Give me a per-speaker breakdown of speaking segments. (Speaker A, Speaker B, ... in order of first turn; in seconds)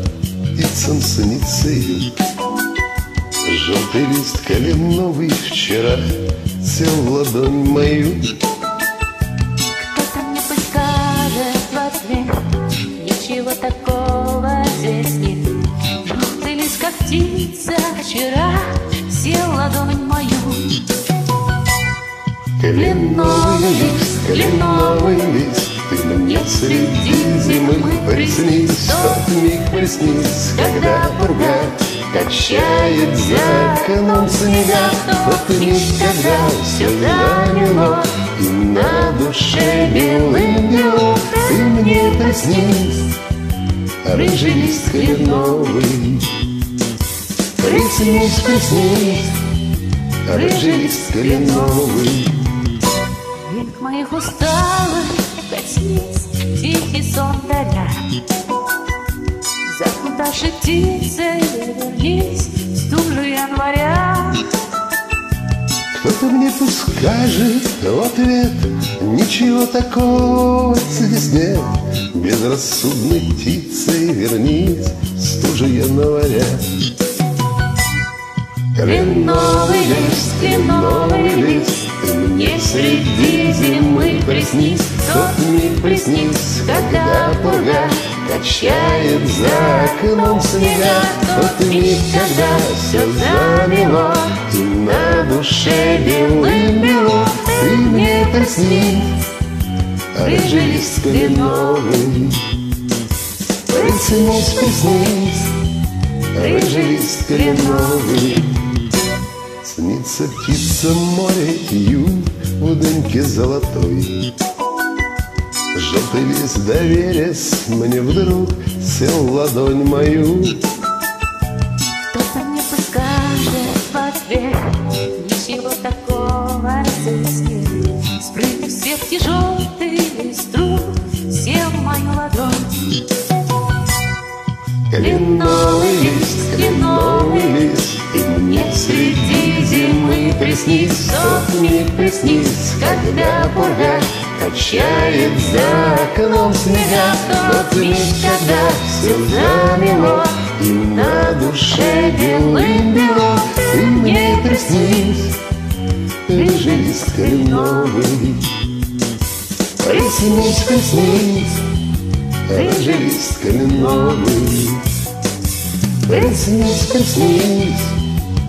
Speaker A: 0.5-2.2, 3.4-8.3, 22.6-43.2, 44.0-46.4, 47.6-49.4, 50.3-52.4, 65.9-76.7, 78.8-99.3, 100.1-102.5, 103.7-105.6, 106.3-108.5, 109.6-114.3, 115.7-120.6, 134.9-155.4, 156.3-158.6, 159.8-161.7, 162.5-164.9, 166.1-168.0
Speaker B: 9.8-20.8, 22.7-25.3, 26.2-29.2, 30.6-38.2, 38.7-41.6, 44.1-45.9, 47.6-48.4, 50.3-51.9, 53.4-58.0, 59.6-64.5, 78.8-99.1, 100.2-101.9, 106.4-108.4, 122.1-132.9, 135.0-137.7, 138.5-155.1, 156.3-157.9, 162.5-163.1, 163.8-164.3